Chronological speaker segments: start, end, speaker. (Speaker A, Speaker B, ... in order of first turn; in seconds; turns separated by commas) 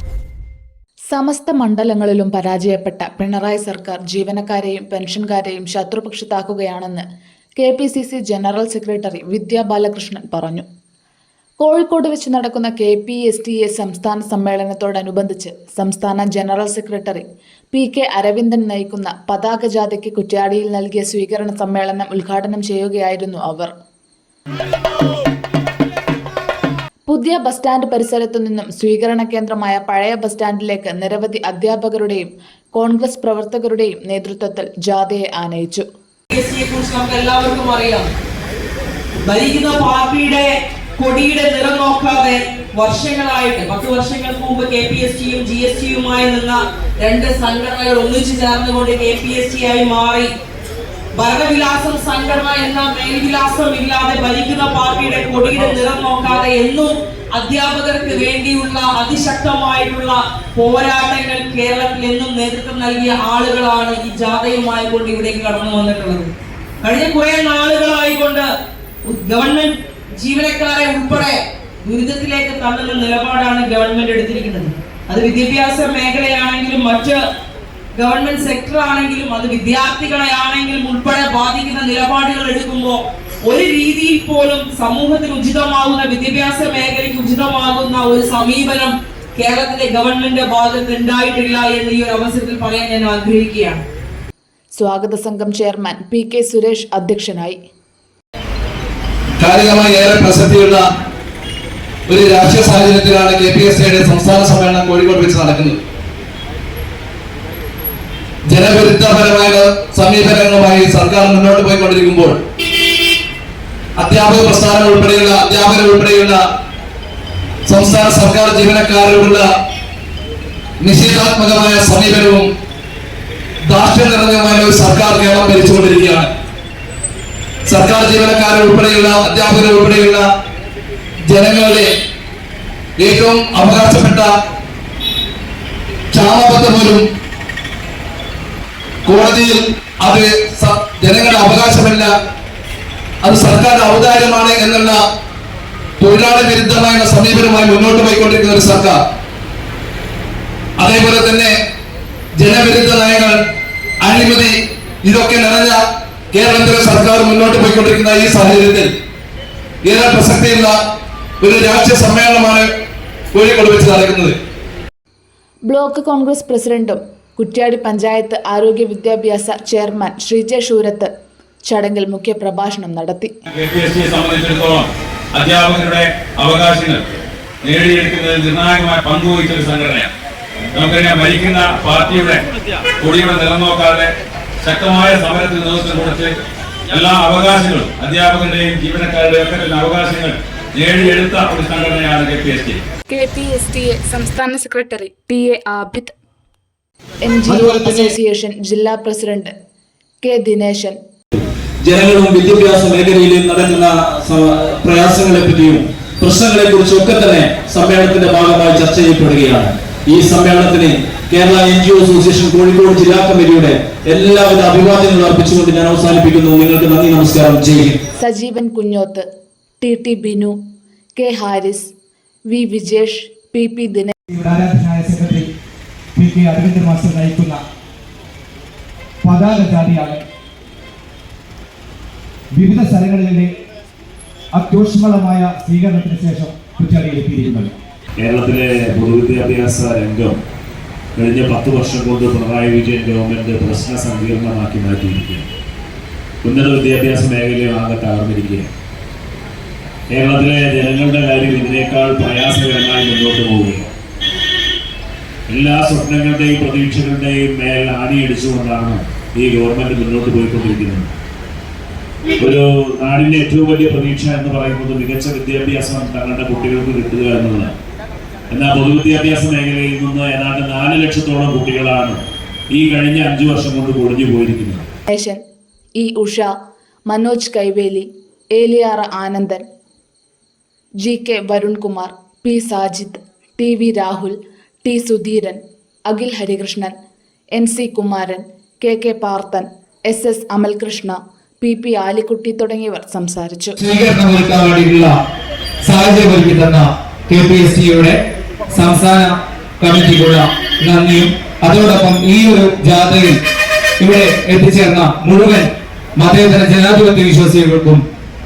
Speaker A: 1.1-7.0, Speaker A: 7.6-10.6, Speaker A: 11.6-23.7, Speaker A: 27.1-35.8, Speaker B: 36.3-38.1, Speaker B: 39.2-50.3, Speaker B: 51.1-66.3, Speaker B: 66.8-68.5, Speaker B: 69.0-77.2, Speaker B: 78.0-93.8, Speaker A: 94.8-97.6, Speaker C: 99.4-100.8, Speaker C: 102.1-105.8, Speaker C: 108.5-112.4, Speaker C: 114.0-116.4, Speaker C: 117.7-119.5, Speaker C: 120.8-122.5, Speaker C: 123.7-126.3, Speaker C: 127.7-130.2, Speaker C: 131.3-131.9, Speaker C: 133.0-134.3, Speaker C: 136.1-137.0, Speaker C: 139.0-142.1, Speaker C: 143.2-145.0, Speaker C: 146.0-149.0, Speaker C: 150.8-151.5, Speaker C: 152.4-153.4, Speaker C: 154.0-155.8, Speaker C: 156.3-158.9, Speaker C: 159.8-160.8, Speaker C: 161.4-162.7, Speaker C: 163.3-164.3, Speaker A: 165.7-171.1, Speaker A: 171.7-173.3, Speaker D: 173.5-177.0, Speaker D: 177.6-180.1, Speaker D: 180.7-182.4, Speaker D: 183.0-186.4, Speaker D: 186.9-192.8, Speaker A: 193.1-196.1, Speaker A: 197.2-199.5, Speaker E: 197.6-198.0, Speaker A: 200.2-201.0, Speaker E: 201.3-218.0, Speaker A: 218.2-219.2, Speaker A: 219.8-220.6, Speaker A: 221.2-221.9, Speaker A: 222.5-224.1, Speaker F: 238.2-240.4, Speaker F: 241.2-245.5, Speaker F: 246.4-248.7, Speaker F: 250.1-253.9, Speaker F: 255.5-261.1, Speaker F: 262.4-267.7, Speaker F: 268.5-272.2, Speaker F: 272.7-274.9, Speaker A: 275.1-275.4, Speaker A: 276.0-276.5, Speaker A: 277.1-279.6, Speaker A: 281.0-286.9, Speaker A: 287.5-293.8, Speaker G: 293.8-295.1, Speaker G: 295.8-298.1, Speaker G: 298.7-303.4, Speaker G: 304.0-308.0